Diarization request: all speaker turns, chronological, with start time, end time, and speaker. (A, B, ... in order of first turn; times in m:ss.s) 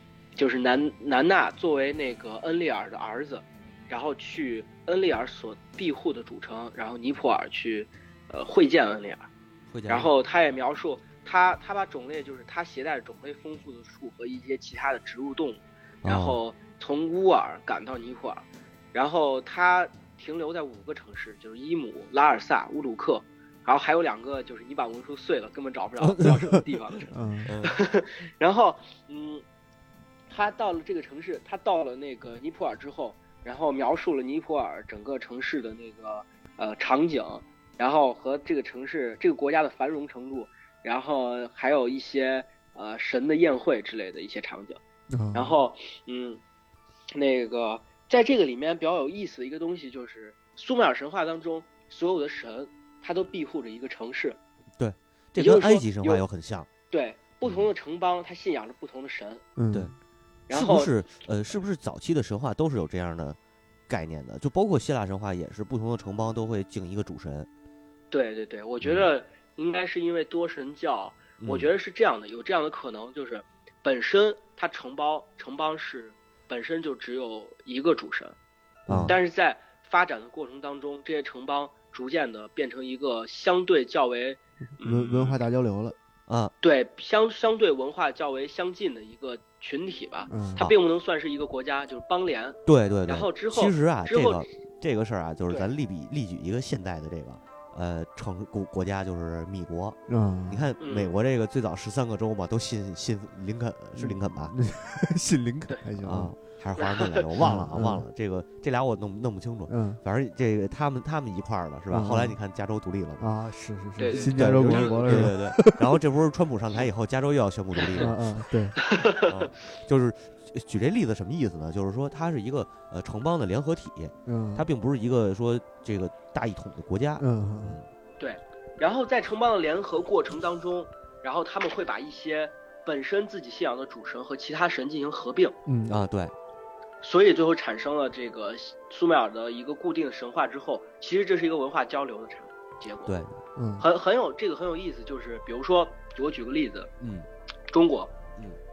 0:00.4-0:09.3 A
0:09.7-0:10.1 B
0:09.9-0:29.4 A
0:16.0-0:16.4 B
0:26.0-0:26.6 B
0:27.1-0:27.5 C
0:27.4-0:27.7 B
0:30.3-0:44.8 A
0:45.1-0:45.6 C
0:45.3-0:46.4 A
0:47.1-0:54.4 A
0:54.8-0:56.7 B
0:55.4-0:56.2 A
0:56.9-0:59.4 A
0:59.6-0:59.9 C
1:00.5-1:00.9 A
1:00.5-1:03.4 B
1:03.9-1:07.5 B
1:08.1-1:18.4 A
1:08.8-1:09.1 B
1:11.4-1:11.7 B
1:18.9-1:19.1 C
1:18.9-1:19.2 B
1:19.1-1:25.4 A
1:24.8-1:26.0 C
1:26.3-1:26.5 B
1:26.6-1:34.4 A
1:30.3-1:30.6 C
1:32.6-1:44.5 B
1:40.1-1:40.6 C
1:40.8-1:41.1 A
1:44.0-1:46.3 C
1:46.0-1:53.2 B
1:46.8-1:47.2 A
1:47.4-1:48.0 C
1:49.7-1:50.0 C
1:51.9-1:52.4 C
1:53.2-1:55.9 C
1:54.0-1:55.3 A
1:54.1-1:58.2 B
1:57.8-1:58.1 A
1:58.0-1:58.8 C
1:58.8-1:59.3 A
1:59.2-2:07.9 B
2:04.2-2:04.6 C
2:07.2-2:07.8 C
2:08.2-2:15.6 A
2:15.6-2:16.0 C
2:15.8-2:16.3 B
2:17.0-2:23.2 A
2:23.0-2:23.4 B
2:23.5-2:23.8 C
2:23.8-2:26.9 A
2:27.0-2:27.3 B
2:27.7-2:28.1 A